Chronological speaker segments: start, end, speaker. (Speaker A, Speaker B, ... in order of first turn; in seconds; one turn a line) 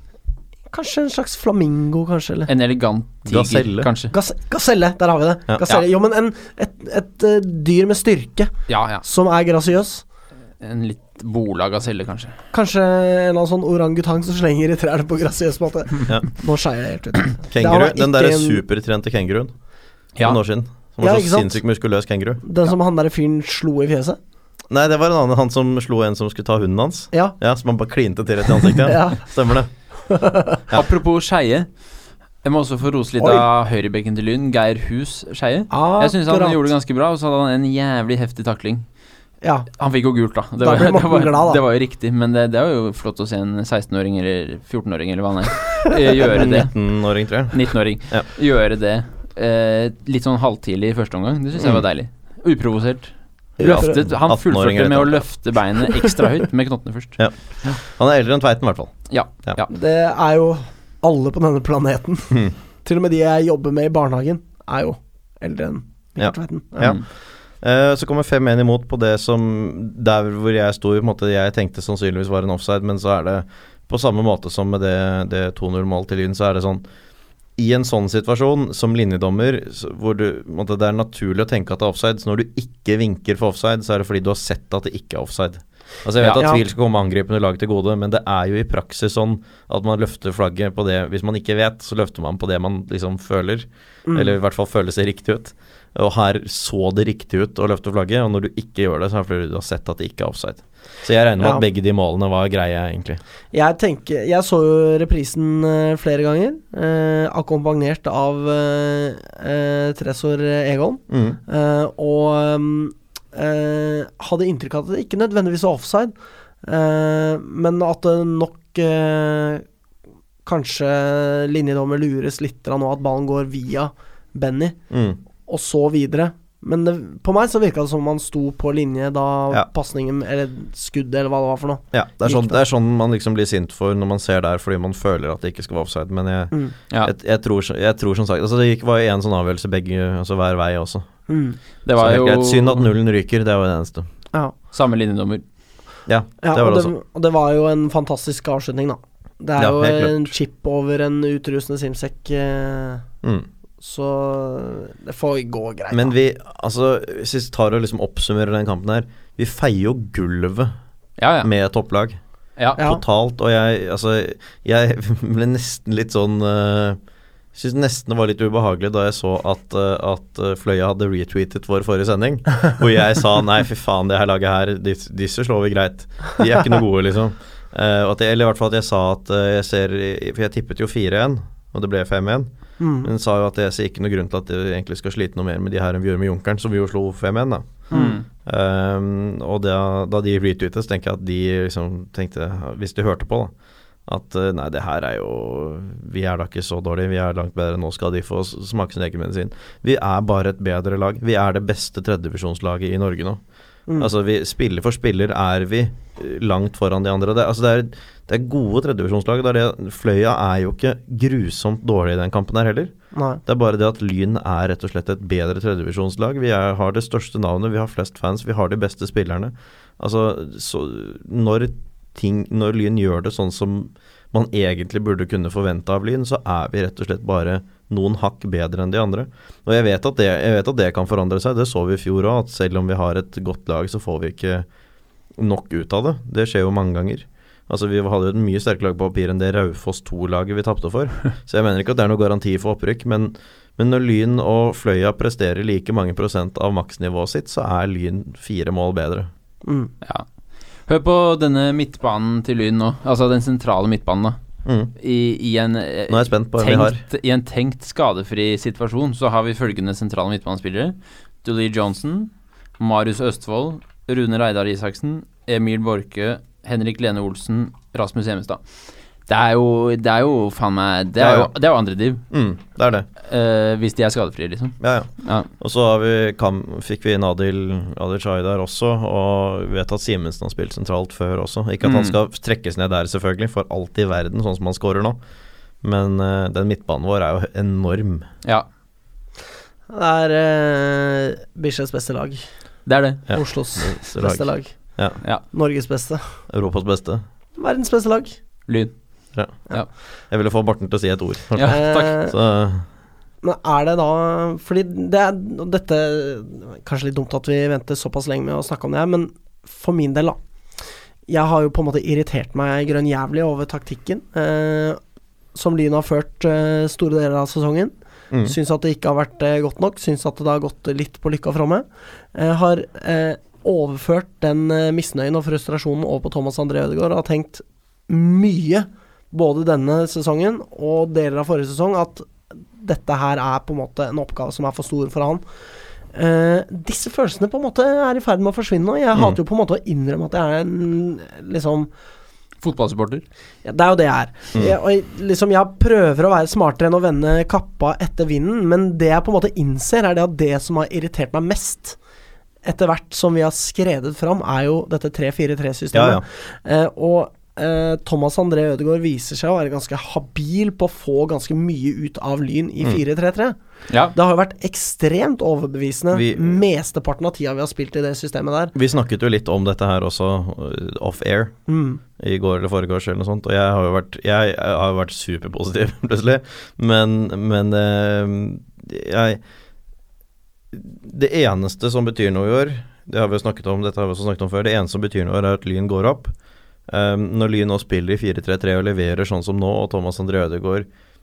Speaker A: 0.7-2.5
Speaker B: 2.5-4.1
Speaker C: 3.3-3.9
Speaker A: 4.1-8.5
Speaker B: 8.7-9.0
Speaker A: 9.0-10.0
Speaker B: 10.6-12.3
Speaker A: 12.5-18.6
Speaker C: 17.5-19.5
Speaker C: 20.2-22.4
Speaker A: 21.0-21.6
Speaker A: 22.4-24.2
Speaker C: 24.7-29.7
Speaker A: 28.7-29.2
Speaker A: 30.1-30.6
Speaker B: 30.7-31.7
Speaker B: 32.4-38.9
Speaker A: 35.7-36.7
Speaker A: 39.4-39.7
Speaker B: 39.8-46.8
Speaker A: 40.6-41.6
Speaker C: 46.3-47.6
Speaker B: 47.5-57.2
Speaker C: 53.6-55.2
Speaker A: 53.6-54.0
Speaker C: 57.2-59.0
Speaker B: 59.1-59.7
Speaker A: 59.7-66.9
Speaker C: 66.2-67.0
Speaker C: 67.6-76.8
Speaker C: 77.6-103.2
Speaker A: 94.1-94.3
Speaker A: 103.5-119.6
Speaker C: 111.1-111.4
Speaker A: 120.4-124.8
Speaker C: 124.9-125.2
Speaker A: 125.5-132.6
Speaker C: 131.9-141.1
Speaker A: 141.3-141.6
Speaker B: 141.8-142.8
Speaker C: 141.9-144.1
Speaker B: 144.7-145.4
Speaker C: 146.1-146.9
Speaker A: 146.4-153.0
Speaker C: 149.6-150.1
Speaker A: 153.8-156.1
Speaker C: 155.9-160.7
Speaker B: 161.2-161.5
Speaker C: 161.4-162.2
Speaker C: 162.8-167.0
Speaker C: 167.5-182.5
Speaker A: 182.8-183.1
Speaker C: 183.0-187.9
Speaker A: 187.9-188.2
Speaker B: 187.9-188.2
Speaker C: 188.4-193.5
Speaker C: 194.1-203.4
Speaker C: 204.0-212.9
Speaker A: 213.1-213.4
Speaker C: 213.4-234.7
Speaker C: 235.4-249.3
Speaker A: 249.6-249.9
Speaker B: 250.9-254.4
Speaker C: 254.7-254.9
Speaker B: 255.0-268.6
Speaker C: 256.1-257.0
Speaker B: 269.3-272.2
Speaker C: 271.2-271.5
Speaker C: 272.3-273.1
Speaker B: 273.2-275.5
Speaker C: 274.8-285.2
Speaker B: 281.8-282.1
Speaker C: 285.8-288.3
Speaker A: 289.9-292.4
Speaker B: 292.9-293.4
Speaker C: 293.3-295.2
Speaker A: 293.3-294.8
Speaker A: 295.5-296.2
Speaker C: 296.5-297.2
Speaker A: 297.6-298.4
Speaker B: 298.7-298.9
Speaker C: 299.3-299.6
Speaker C: 300.3-302.8
Speaker B: 301.6-302.1
Speaker A: 301.6-302.4
Speaker A: 303.4-310.4
Speaker A: 311.3-315.0
Speaker A: 315.5-335.4
Speaker A: 336.1-341.9
Speaker B: 342.6-343.2
Speaker A: 343.6-352.0
Speaker A: 352.6-363.6
Speaker C: 355.9-356.2
Speaker B: 363.9-364.1
Speaker A: 364.1-368.7
Speaker C: 366.1-366.6
Speaker C: 368.7-371.6
Speaker A: 371.7-372.0
Speaker C: 372.2-379.4
Speaker C: 380.7-386.3
Speaker C: 386.9-390.9